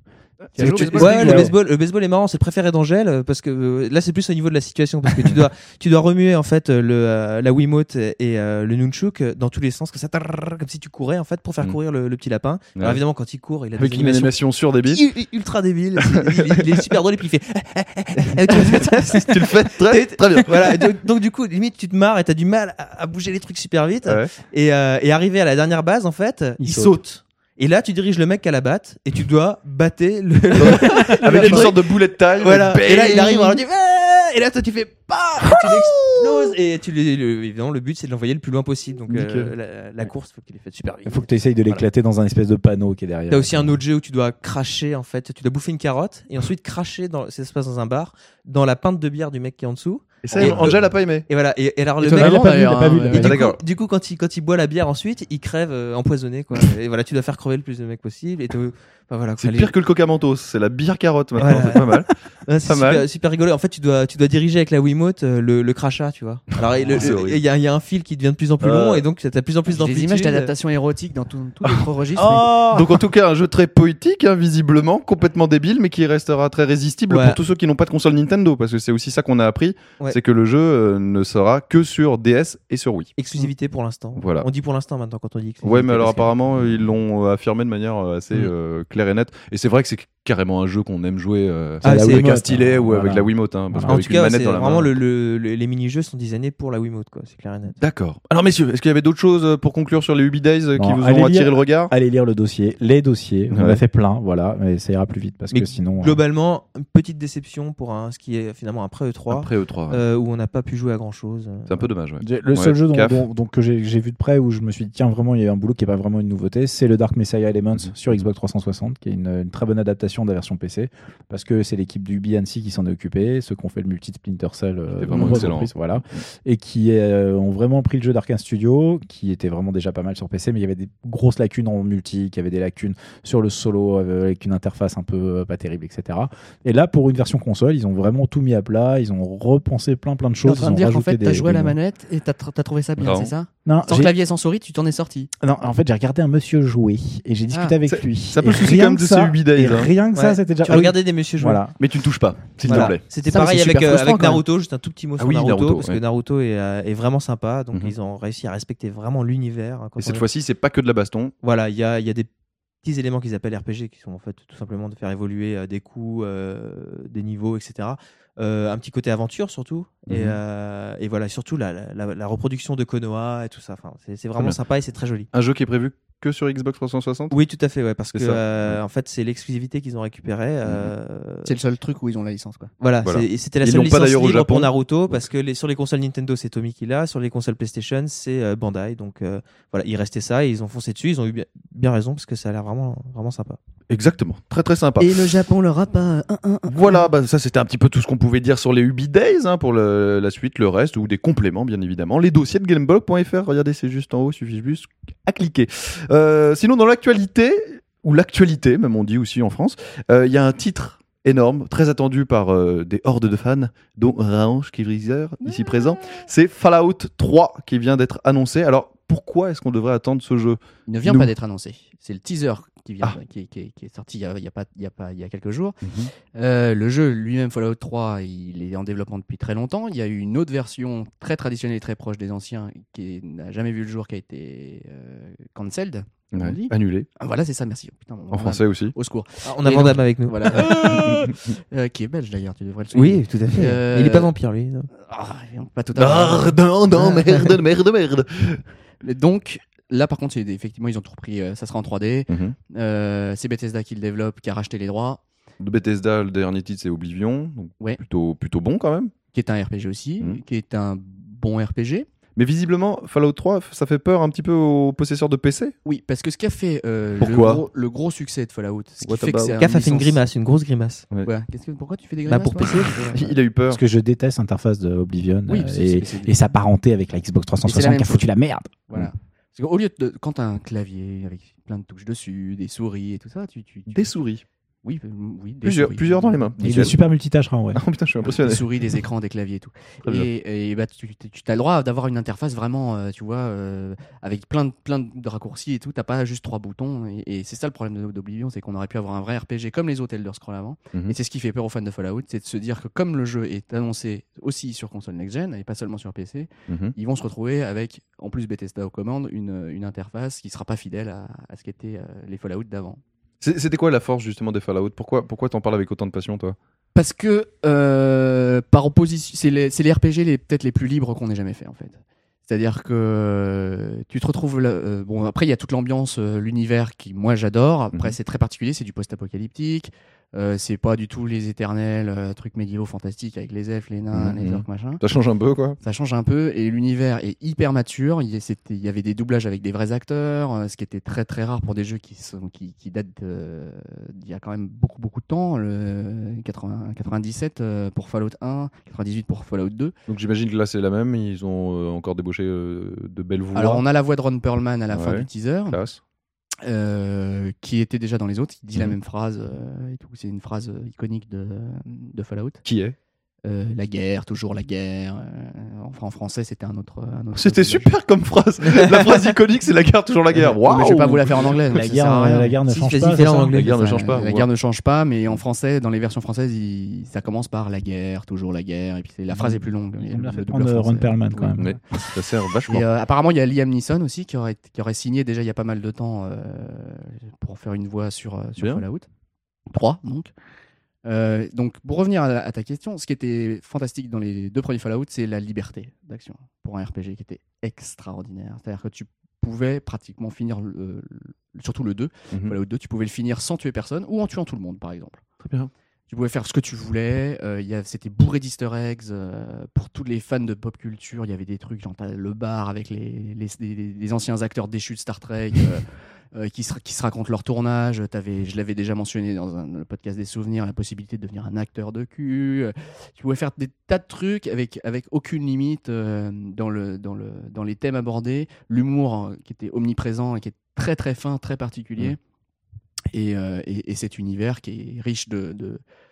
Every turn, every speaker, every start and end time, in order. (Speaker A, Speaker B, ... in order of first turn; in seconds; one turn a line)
Speaker A: 0.5-1.5
Speaker B: 0.6-1.5
Speaker C: 0.6-1.4
Speaker D: 0.9-41.8
Speaker C: 13.8-15.0
Speaker C: 16.0-16.6
Speaker C: 18.5-20.7
Speaker C: 24.0-24.3
Speaker B: 26.6-27.0
Speaker C: 30.6-33.6
Speaker B: 31.4-31.7
Speaker C: 39.1-39.5
Speaker B: 41.0-43.8
Speaker D: 43.3-59.7
Speaker C: 50.2-51.2
Speaker A: 52.0-53.4
Speaker B: 52.1-53.4
Speaker C: 53.2-53.6
Speaker C: 59.4-62.1
Speaker D: 61.4-70.5
Speaker C: 62.6-63.0
Speaker C: 66.8-67.4
Speaker C: 68.6-69.0
Speaker A: 69.7-72.7
Speaker D: 72.2-72.8
Speaker C: 72.6-83.1
Speaker D: 77.1-77.4
Speaker D: 83.2-86.3
Speaker C: 84.2-84.5
Speaker C: 85.6-95.0
Speaker B: 91.8-94.0
Speaker D: 91.8-92.4
Speaker D: 93.9-97.8
Speaker C: 97.8-101.9
Speaker B: 100.7-106.2
Speaker C: 103.5-103.8
Speaker D: 105.5-111.9
Speaker C: 109.3-110.0
Speaker C: 111.7-113.2
Speaker B: 112.2-141.7
Speaker C: 124.9-126.2
Speaker A: 140.4-145.3
Speaker C: 143.0-143.3
Speaker B: 143.6-144.1
Speaker B: 145.4-151.8
Speaker A: 147.5-147.8
Speaker C: 147.9-149.9
Speaker D: 150.1-151.6
Speaker C: 151.8-153.0
Speaker D: 152.6-160.2
Speaker A: 153.2-154.4
Speaker C: 155.2-156.0
Speaker C: 160.0-161.3
Speaker D: 161.4-162.3
Speaker D: 162.8-175.3
Speaker C: 170.1-170.4
Speaker C: 175.3-177.3
Speaker D: 177.3-181.5
Speaker C: 178.1-178.8
Speaker C: 180.6-180.9
Speaker A: 181.4-182.7
Speaker D: 182.8-193.6
Speaker C: 183.0-185.3
Speaker C: 193.9-195.1
Speaker A: 195.0-197.1
Speaker C: 196.7-221.3
Speaker A: 215.5-215.9
Speaker A: 220.8-225.8
Speaker C: 225.8-226.1
Speaker A: 226.3-244.3
Speaker C: 236.3-237.1
Speaker C: 238.3-238.9
Speaker D: 239.4-241.1
Speaker C: 240.7-241.4
Speaker D: 242.9-244.9
Speaker A: 244.9-247.2
Speaker C: 245.9-248.6
Speaker A: 249.0-255.2
Speaker C: 252.3-252.6
Speaker C: 255.6-259.1
Speaker A: 259.3-262.1
Speaker C: 262.4-265.7
Speaker A: 265.8-270.2
Speaker C: 267.2-267.6
Speaker C: 269.0-269.6
Speaker D: 269.6-271.1
Speaker A: 271.2-273.4
Speaker D: 272.3-273.2
Speaker C: 273.1-273.8
Speaker B: 273.7-278.7
Speaker A: 275.5-276.4
Speaker A: 277.6-278.3
Speaker A: 278.9-284.1
Speaker C: 283.9-284.4
Speaker A: 284.8-286.9
Speaker C: 285.6-286.9
Speaker B: 286.6-287.8
Speaker C: 287.7-288.6
Speaker A: 288.2-313.0
Speaker C: 306.7-306.9
Speaker C: 313.4-316.6
Speaker A: 316.9-335.0
Speaker C: 334.1-335.8
Speaker A: 335.8-349.9
Speaker C: 350.1-353.8
Speaker A: 353.5-355.8
Speaker C: 354.9-356.0
Speaker A: 356.6-362.6
Speaker C: 362.6-362.9
Speaker A: 363.4-367.9
Speaker C: 367.3-371.5
Speaker A: 370.3-372.6
Speaker B: 371.7-373.5
Speaker D: 372.7-373.7
Speaker C: 373.5-374.5
Speaker A: 373.6-389.1
Speaker B: 380.0-381.8
Speaker C: 381.6-382.8
Speaker C: 388.6-388.8
Speaker A: 389.7-390.3
Speaker A: 391.0-405.2
Speaker C: 402.3-402.6
Speaker C: 405.4-405.7
Speaker A: 406.1-415.8
Speaker A: 416.3-432.2
Speaker A: 433.1-435.8